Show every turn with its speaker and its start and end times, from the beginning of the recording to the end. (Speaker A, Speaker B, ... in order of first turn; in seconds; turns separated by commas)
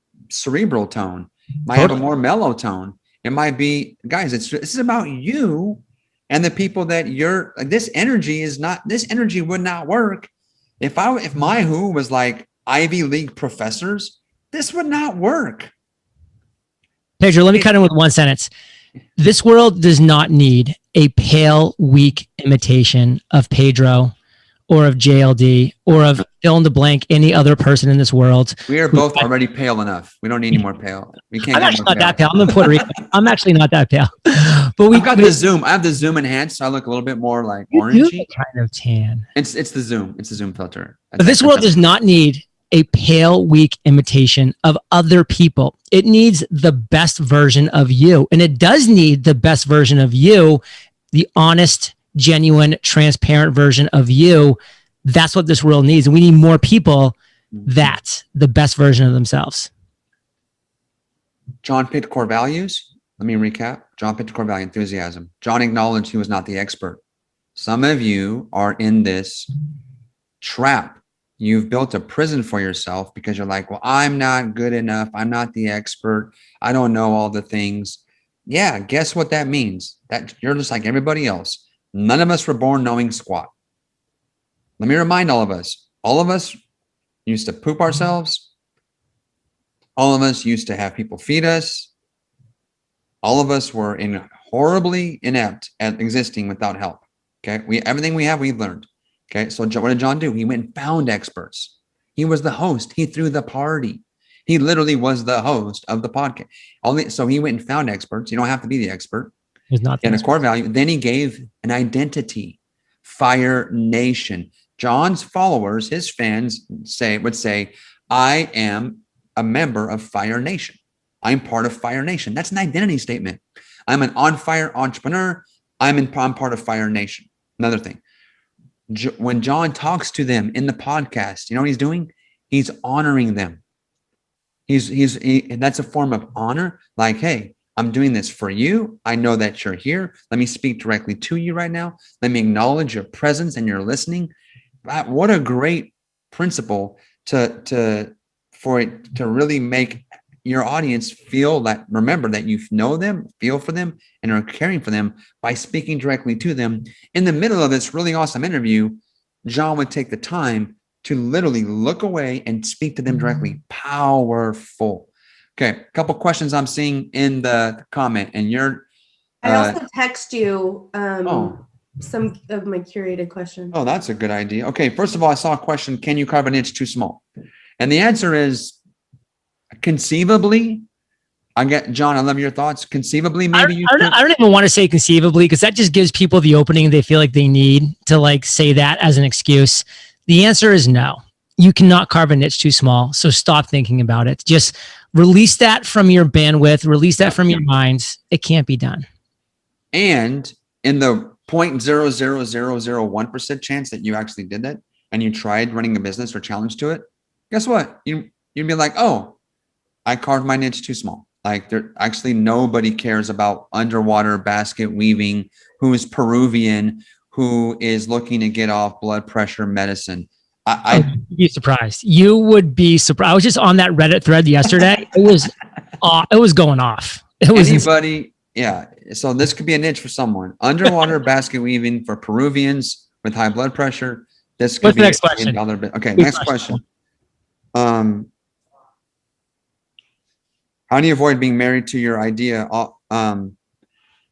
Speaker A: 0.3-15.7, Speaker B: 1.7-2.0, Speaker B: 17.2-18.5, Speaker B: 19.2-24.1, Speaker B: 24.7-29.2, Speaker A: 28.7-32.8, Speaker B: 31.5-35.3, Speaker A: 34.9-38.3, Speaker B: 37.7-39.3, Speaker A: 39.4-41.8, Speaker B: 41.2-50.6, Speaker B: 51.1-57.1, Speaker B: 57.7-59.7, Speaker A: 61.6-67.0, Speaker A: 67.6-69.5, Speaker A: 70.4-83.5, Speaker A: 84.8-86.6, Speaker A: 87.3-88.5, Speaker A: 90.0-91.9, Speaker A: 93.2-109.3, Speaker B: 109.7-110.2, Speaker A: 110.0-128.0, Speaker A: 128.9-133.6, Speaker A: 134.7-144.3, Speaker A: 144.9-168.9, Speaker A: 169.4-169.8, Speaker C: 169.4-173.8, Speaker A: 171.2-171.6, Speaker A: 173.7-177.2, Speaker A: 177.8-178.8, Speaker A: 179.8-180.8, Speaker A: 181.6-184.2, Speaker B: 183.5-199.1, Speaker A: 199.9-209.4, Speaker A: 210.1-221.1, Speaker B: 220.9-227.9, Speaker A: 227.5-236.8, Speaker B: 234.8-235.6, Speaker B: 236.2-236.6, Speaker A: 237.7-238.3, Speaker A: 240.9-243.6